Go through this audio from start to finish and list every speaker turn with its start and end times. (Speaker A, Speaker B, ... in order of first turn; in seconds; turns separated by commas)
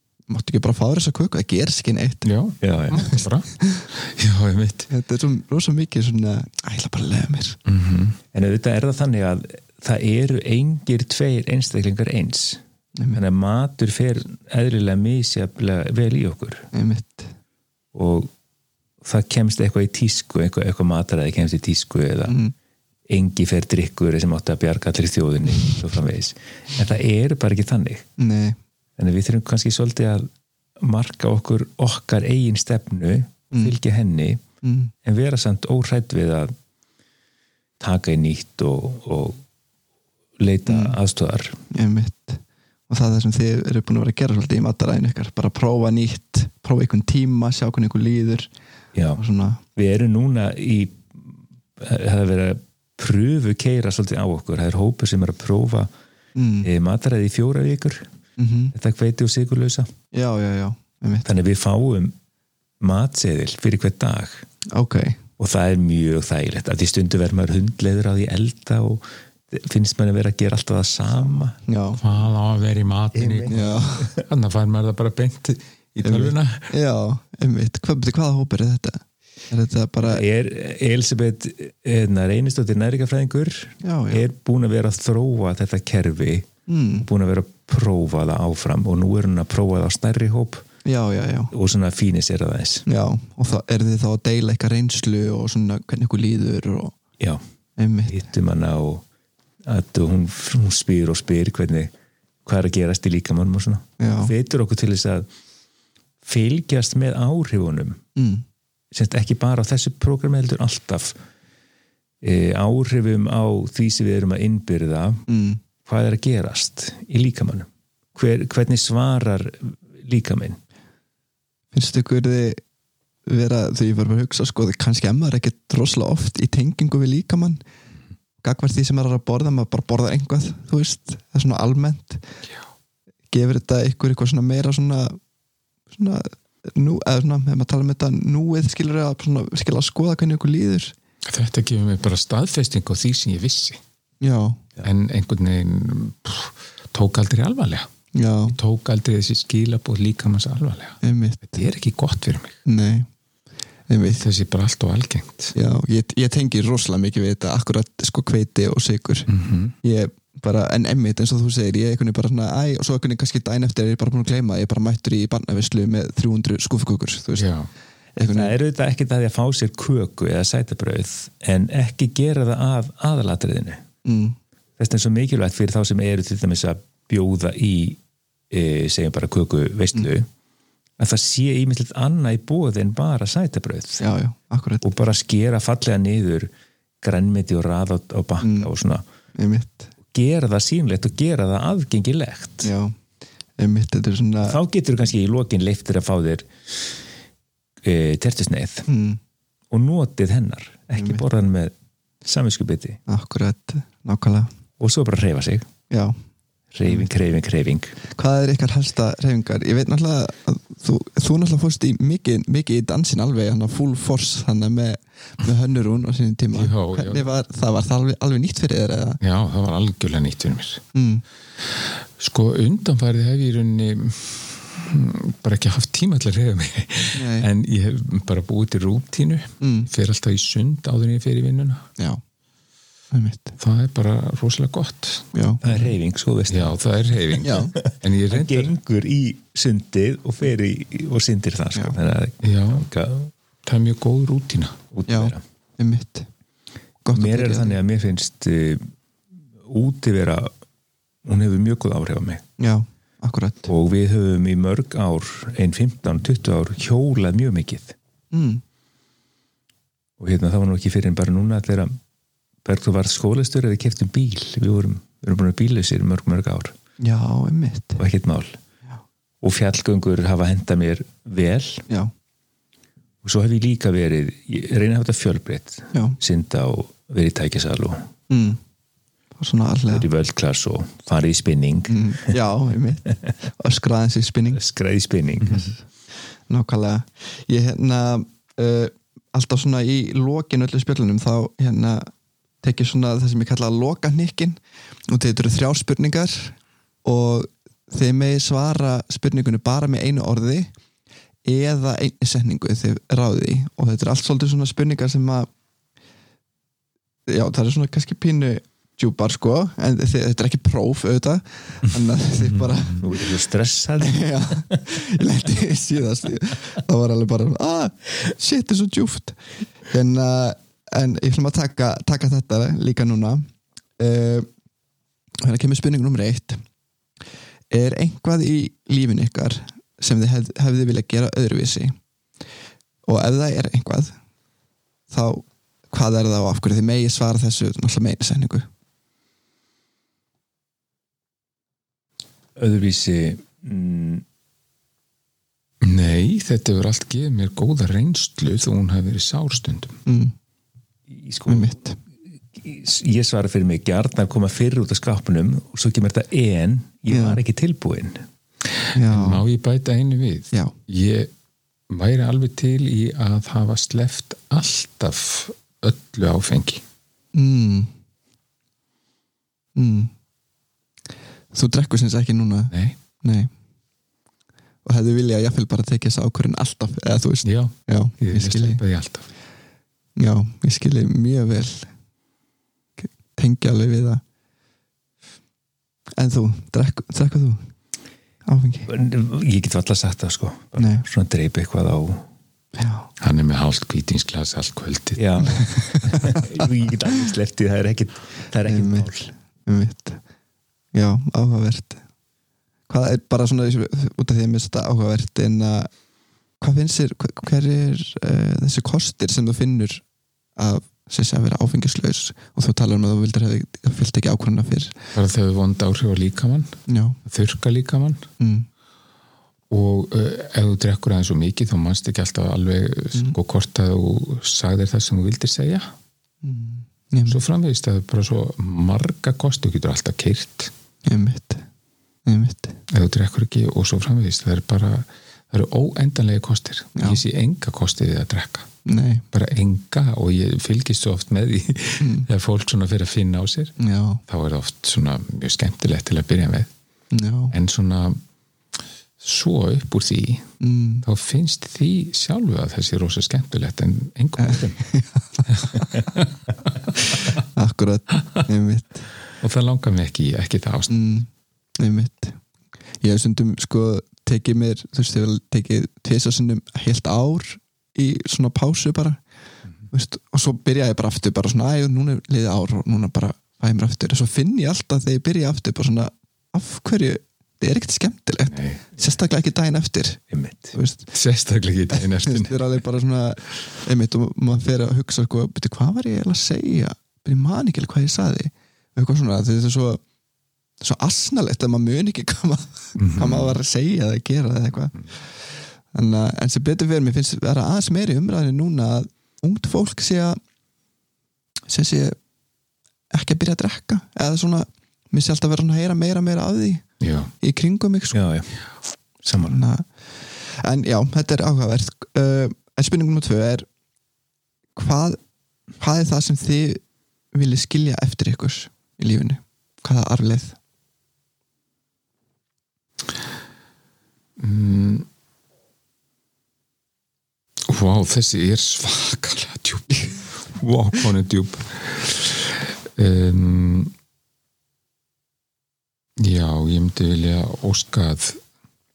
Speaker A: 0.3-2.3, Speaker B: 2.2-4.9, Speaker C: 2.6-3.1, Speaker A: 3.0-3.9, Speaker A: 4.9-7.6, Speaker B: 7.7-8.2, Speaker C: 8.3-16.7, Speaker A: 13.0-13.2, Speaker A: 16.7-17.3, Speaker C: 17.9-18.3, Speaker C: 19.0-22.4, Speaker A: 22.3-22.5, Speaker C: 23.1-28.1, Speaker A: 28.2-28.6, Speaker C: 29.0-30.3, Speaker C: 30.8-34.4, Speaker A: 34.6-34.9, Speaker C: 35.0-36.5, Speaker C: 37.8-39.4, Speaker C: 40.4-41.6, Speaker A: 40.7-41.0, Speaker A: 41.7-48.5, Speaker C: 49.0-49.2, Speaker A: 49.2-49.6, Speaker C: 49.8-55.9, Speaker A: 56.4-56.7, Speaker C: 56.6-58.1, Speaker A: 58.4-58.7, Speaker C: 58.7-59.9, Speaker A: 60.1-61.3, Speaker C: 61.2-62.1, Speaker C: 62.8-64.5, Speaker A: 64.7-65.2, Speaker C: 65.4-71.6, Speaker A: 71.7-72.0, Speaker B: 72.0-76.7, Speaker C: 73.1-74.2, Speaker A: 73.5-74.1, Speaker A: 76.0-80.2, Speaker C: 80.0-86.5, Speaker A: 83.8-84.2, Speaker A: 86.7-87.1, Speaker C: 87.0-90.7, Speaker A: 90.8-91.5, Speaker C: 91.5-92.9, Speaker A: 92.9-97.0, Speaker A: 97.8-98.2, Speaker C: 98.1-99.0, Speaker C: 99.6-101.9, Speaker C: 102.5-105.3, Speaker A: 104.0-104.3, Speaker C: 106.2-108.0, Speaker A: 108.2-108.4, Speaker C: 108.9-111.2, Speaker C: 112.2-115.2, Speaker A: 115.3-115.6, Speaker C: 115.8-120.6, Speaker A: 121.7-122.6, Speaker A: 123.3-127.6, Speaker A: 128.4-132.2, Speaker A: 133.3-135.2, Speaker A: 135.9-140.9, Speaker B: 141.3-143.8, Speaker A: 144.2-144.6, Speaker B: 144.8-147.9, Speaker A: 148.1-148.6, Speaker B: 148.5-152.6, Speaker A: 151.0-151.6, Speaker A: 152.7-153.1, Speaker A: 153.9-154.2, Speaker B: 154.1-155.5, Speaker A: 155.6-159.3, Speaker B: 159.3-159.7, Speaker A: 159.8-167.5, Speaker B: 167.3-167.7, Speaker A: 168.2-168.6, Speaker C: 168.3-173.8, Speaker A: 174.0-174.4, Speaker C: 174.8-180.3, Speaker C: 181.0-184.0, Speaker A: 184.0-184.8, Speaker C: 184.8-186.5, Speaker C: 187.0-189.0, Speaker A: 188.4-188.7, Speaker A: 189.4-189.9, Speaker C: 190.1-192.7, Speaker A: 192.6-192.9, Speaker A: 193.6-194.6, Speaker C: 194.4-196.9, Speaker C: 197.8-198.9, Speaker A: 198.9-199.2, Speaker C: 199.7-201.7, Speaker A: 201.0-201.2, Speaker C: 202.2-203.0, Speaker A: 203.1-204.5, Speaker C: 204.8-205.7, Speaker A: 205.9-206.2, Speaker C: 206.7-208.0, Speaker A: 208.2-219.2, Speaker B: 216.5-217.3, Speaker B: 219.2-220.8, Speaker A: 220.9-221.2, Speaker B: 221.8-231.9, Speaker A: 227.1-227.5, Speaker A: 229.6-229.9, Speaker A: 233.1-233.6, Speaker B: 233.6-235.3, Speaker A: 235.3-235.7, Speaker C: 235.6-236.8, Speaker B: 236.5-238.7, Speaker A: 237.4-237.8, Speaker C: 237.4-243.3, Speaker B: 242.4-242.9, Speaker B: 243.6-244.8, Speaker C: 244.9-245.4, Speaker A: 245.1-246.3, Speaker A: 247.1-247.8, Speaker C: 247.1-248.8, Speaker C: 249.6-250.5, Speaker C: 251.2-252.4, Speaker A: 252.6-253.7, Speaker C: 253.7-258.0, Speaker A: 258.3-258.6, Speaker C: 260.2-262.0, Speaker C: 262.6-266.8, Speaker A: 267.0-268.0, Speaker C: 268.0-268.6, Speaker C: 269.4-271.8, Speaker C: 273.2-278.1, Speaker A: 278.3-278.6, Speaker A: 279.4-280.1, Speaker C: 279.9-282.3, Speaker A: 281.9-284.6, Speaker C: 284.5-285.7, Speaker A: 285.4-285.8, Speaker A: 286.5-292.1, Speaker A: 292.6-294.6, Speaker A: 295.1-300.7, Speaker A: 301.4-305.5, Speaker A: 307.3-313.2, Speaker C: 312.9-314.8, Speaker A: 314.0-323.5, Speaker A: 324.0-324.5, Speaker A: 325.4-326.6, Speaker A: 327.7-332.0, Speaker A: 333.1-334.2, Speaker A: 335.1-338.7, Speaker C: 342.6-344.2, Speaker B: 345.8-350.0, Speaker A: 350.1-350.3, Speaker C: 351.1-351.8, Speaker A: 351.5-352.0, Speaker C: 352.5-358.2, Speaker A: 357.1-357.4, Speaker A: 358.9-359.4, Speaker B: 359.0-361.3, Speaker B: 361.9-366.8, Speaker A: 367.3-367.9, Speaker A: 369.8-370.1, Speaker A: 371.5-373.5, Speaker B: 372.7-373.0, Speaker A: 374.9-378.8, Speaker B: 377.4-379.3, Speaker A: 380.2-381.9, Speaker A: 383.0-384.2, Speaker A: 386.2-387.7, Speaker A: 388.5-388.9, Speaker C: 388.9-392.3, Speaker A: 390.8-391.1, Speaker A: 392.8-393.1, Speaker B: 393.2-396.0, Speaker C: 395.2-399.3, Speaker A: 396.1-396.4, Speaker A: 398.6-399.1, Speaker A: 399.7-400.2, Speaker A: 400.9-402.0, Speaker A: 402.9-405.9, Speaker A: 406.6-410.0, Speaker A: 410.6-415.0, Speaker B: 415.1-418.3, Speaker A: 416.9-417.2, Speaker A: 418.4-418.7, Speaker B: 419.7-425.9, Speaker A: 426.4-427.4, Speaker B: 427.2-430.7, Speaker A: 431.1-431.7, Speaker A: 432.3-432.8, Speaker B: 432.9-438.7, Speaker A: 438.9-439.2, Speaker B: 439.3-443.8, Speaker A: 442.0-442.3, Speaker A: 443.8-444.2, Speaker B: 444.3-446.7, Speaker A: 447.1-447.5, Speaker B: 447.5-448.2, Speaker B: 449.2-450.5, Speaker A: 450.6-451.1, Speaker B: 451.0-454.8, Speaker A: 454.4-455.8, Speaker B: 455.5-456.3, Speaker A: 457.1-459.1, Speaker B: 459.4-461.0, Speaker A: 460.9-461.3, Speaker A: 461.8-462.4, Speaker A: 463.0-469.2, Speaker A: 469.9-480.2, Speaker B: 478.5-478.8, Speaker C: 480.3-480.8, Speaker A: 480.8-481.1, Speaker B: 481.1-482.8, Speaker A: 481.9-490.0, Speaker A: 490.8-495.1, Speaker B: 493.0-493.6, Speaker A: 495.9-500.4, Speaker A: 501.7-502.2, Speaker A: 503.1-506.9, Speaker B: 507.0-507.3, Speaker A: 507.4-508.3, Speaker C: 508.1-508.5, Speaker C: 509.2-509.6, Speaker A: 509.4-509.9, Speaker A: 510.5-513.7, Speaker A: 514.8-515.2, Speaker A: 515.8-516.8, Speaker A: 517.3-520.6, Speaker B: 524.4-525.1, Speaker B: 527.7-533.9, Speaker B: 536.2-538.4